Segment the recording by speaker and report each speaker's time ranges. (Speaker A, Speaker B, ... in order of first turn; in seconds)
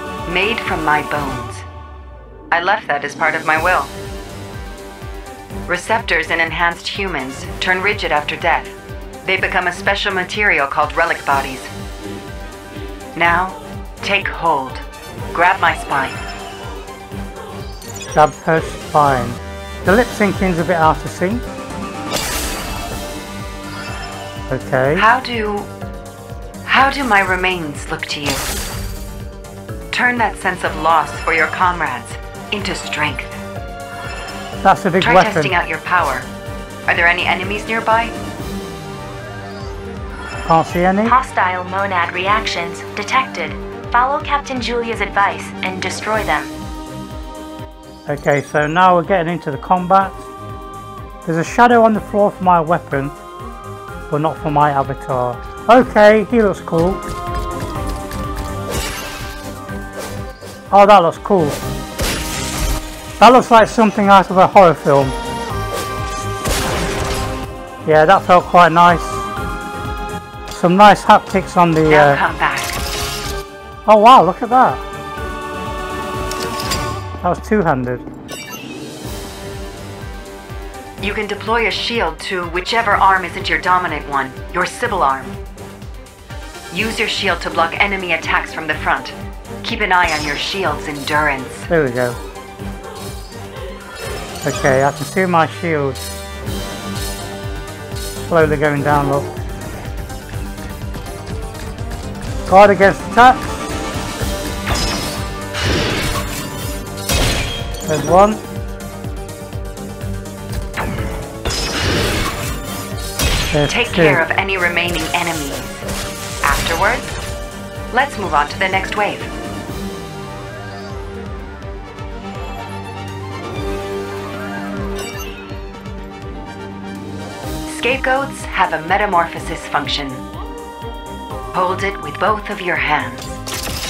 Speaker A: 0.3-1.6, 2.5-3.9, 5.7-11.7, 13.2-16.2, 24.9-25.7, 26.7-28.5, 29.9-33.4, 35.0-36.3, 36.9-38.1, 71.9-72.8, 81.0-85.4, 86.7-91.7, 113.7-115.9, 116.4-117.1, 117.9-119.3, 127.7-130.2, 131.5-133.3
Speaker B: 18.1-21.4, 24.5-25.1, 34.6-35.5, 40.5-41.2, 48.1-50.3, 51.2-53.2, 54.1-57.0, 60.7-61.6, 63.2-65.2, 67.8-69.3, 70.5-72.2, 73.9-74.8, 77.2-78.1, 91.7-92.2, 94.4-96.2, 98.2-99.3, 102.5-103.6, 107.8-108.4, 113.5-114.2
Speaker C: 41.0-46.5